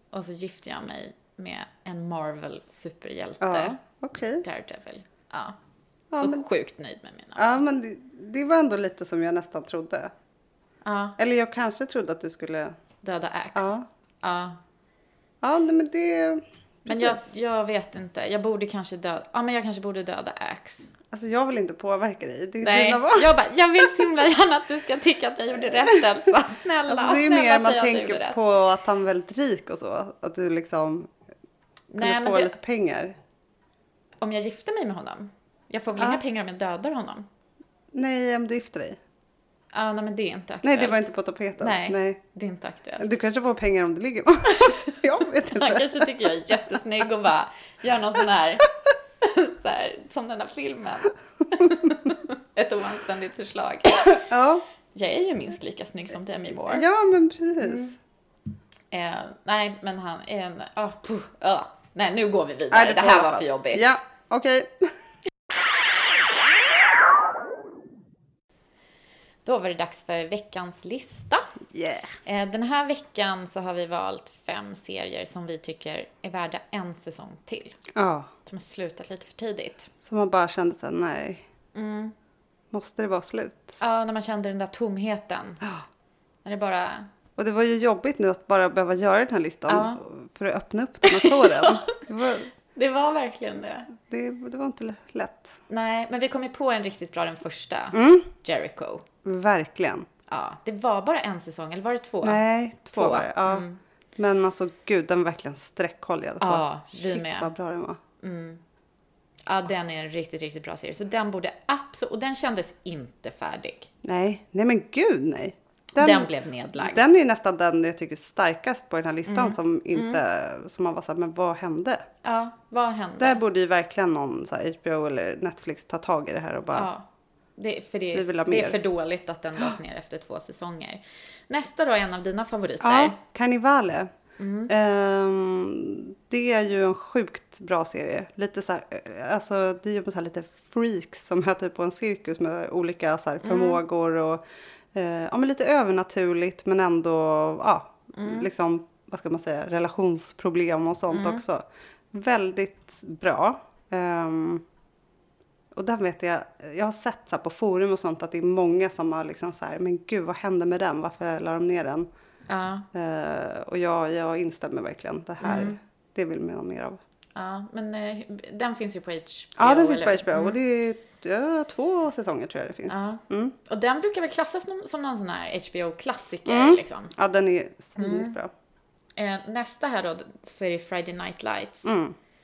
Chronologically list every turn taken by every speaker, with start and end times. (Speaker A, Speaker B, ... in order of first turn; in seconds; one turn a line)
Speaker A: 0.1-3.8
Speaker B: 3.4-4.5
Speaker A: 4.4-5.6
Speaker B: 6.1-6.5
Speaker A: 6.2-7.6
Speaker B: 7.4-10.1
Speaker A: 10.8-11.2
Speaker B: 11.2-12.7
Speaker A: 13.0-14.6
Speaker B: 13.6-13.8
Speaker B: 15.4-17.3
Speaker A: 16.9-20.9
Speaker B: 21.1-23.3
Speaker A: 22.6-28.4
Speaker B: 25.7-26.1
Speaker B: 26.9-31.1
Speaker A: 31.9-32.5
Speaker B: 32.0-33.1
Speaker A: 34.2-37.3
Speaker B: 36.0-36.2
Speaker B: 37.9-39.0
Speaker A: 39.7-43.1
Speaker B: 40.6-42.2
Speaker B: 43.0-46.8
Speaker A: 44.5-48.7
Speaker A: 49.2-54.3
Speaker B: 54.2-54.6
Speaker A: 54.9-56.9
Speaker B: 56.5-58.0
Speaker A: 58.9-64.0
Speaker B: 62.7-64.9
Speaker A: 69.5-71.6
Speaker B: 71.7-72.1
Speaker A: 72.3-77.8
Speaker B: 77.9-78.3
Speaker A: 78.5-79.9
Speaker B: 80.0-81.4
Speaker A: 81.8-82.1
Speaker B: 82.7-83.8
Speaker A: 83.8-85.6
Speaker A: 86.5-87.1
Speaker B: 87.4-92.5
Speaker A: 89.7-90.0
Speaker A: 91.0-92.0
Speaker A: 92.7-93.9
Speaker B: 94.0-95.6
Speaker A: 95.7-99.1
Speaker B: 97.9-98.3
Speaker B: 99.2-100.1
Speaker A: 100.3-102.4
Speaker B: 102.2-103.7
Speaker A: 102.9-103.8
Speaker B: 104.2-108.0
Speaker A: 106.4-107.5
Speaker A: 108.2-108.6
Speaker A: 109.5-113.9
Speaker B: 114.0-122.0
Speaker A: 116.0-117.0
Speaker A: 119.3-120.2
Speaker A: 122.2-123.4
Speaker B: 123.2-126.9
Speaker A: 126.8-133.2
Speaker B: 128.1-128.8
Speaker B: 132.8-134.1
Speaker A: 134.4-134.7
Speaker B: 134.7-154.6
Speaker A: 143.4-143.8
Speaker A: 148.2-148.5
Speaker A: 151.1-151.4
Speaker B: 155.7-162.1
Speaker A: 162.5-162.9
Speaker B: 162.9-167.0
Speaker A: 165.4-165.8
Speaker A: 167.3-170.6
Speaker B: 169.6-173.6
Speaker A: 172.9-177.1
Speaker B: 176.5-178.5
Speaker A: 178.0-178.3
Speaker A: 179.2-181.9
Speaker B: 181.8-182.2